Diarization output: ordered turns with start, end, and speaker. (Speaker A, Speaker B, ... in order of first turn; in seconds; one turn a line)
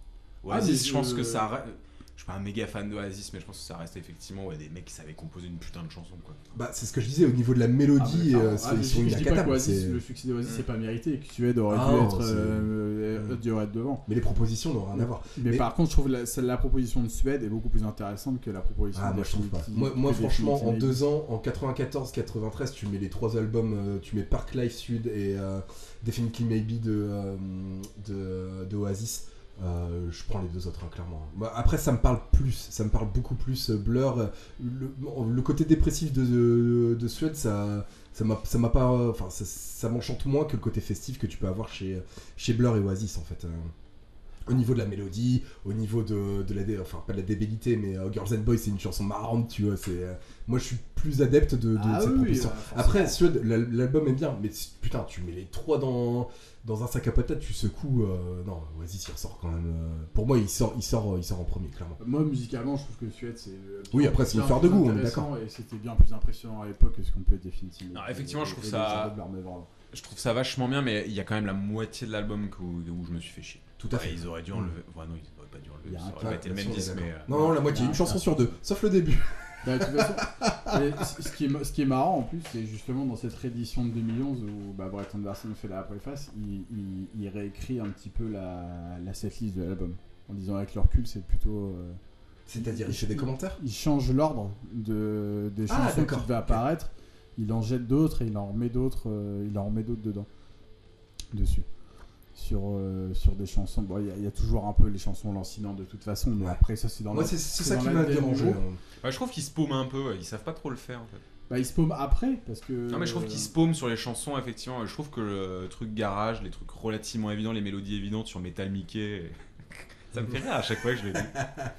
Speaker A: 0.4-6.4
Speaker B: 0.5-1.5
Speaker C: 6.5-10.0
Speaker B: 8.0-14.1
Speaker C: 11.7-13.4
Speaker C: 14.1-15.7
Speaker B: 14.9-21.0
Speaker C: 18.9-43.7
Speaker C: 44.5-62.0
Speaker B: 51.7-53.2
Speaker B: 62.0-69.7
Speaker C: 63.9-65.3
Speaker A: 67.9-69.1
Speaker A: 69.9-77.3
Speaker C: 73.8-74.7
Speaker B: 75.8-78.5
Speaker C: 76.2-80.8
Speaker B: 79.6-92.0
Speaker C: 92.5-93.6
Speaker B: 92.6-100.3
Speaker C: 95.7-96.6
Speaker B: 101.3-101.7
Speaker B: 102.3-108.6
Speaker C: 107.1-108.8
Speaker A: 109.0-111.2
Speaker B: 111.5-113.5
Speaker A: 112.9-121.3
Speaker C: 121.2-121.7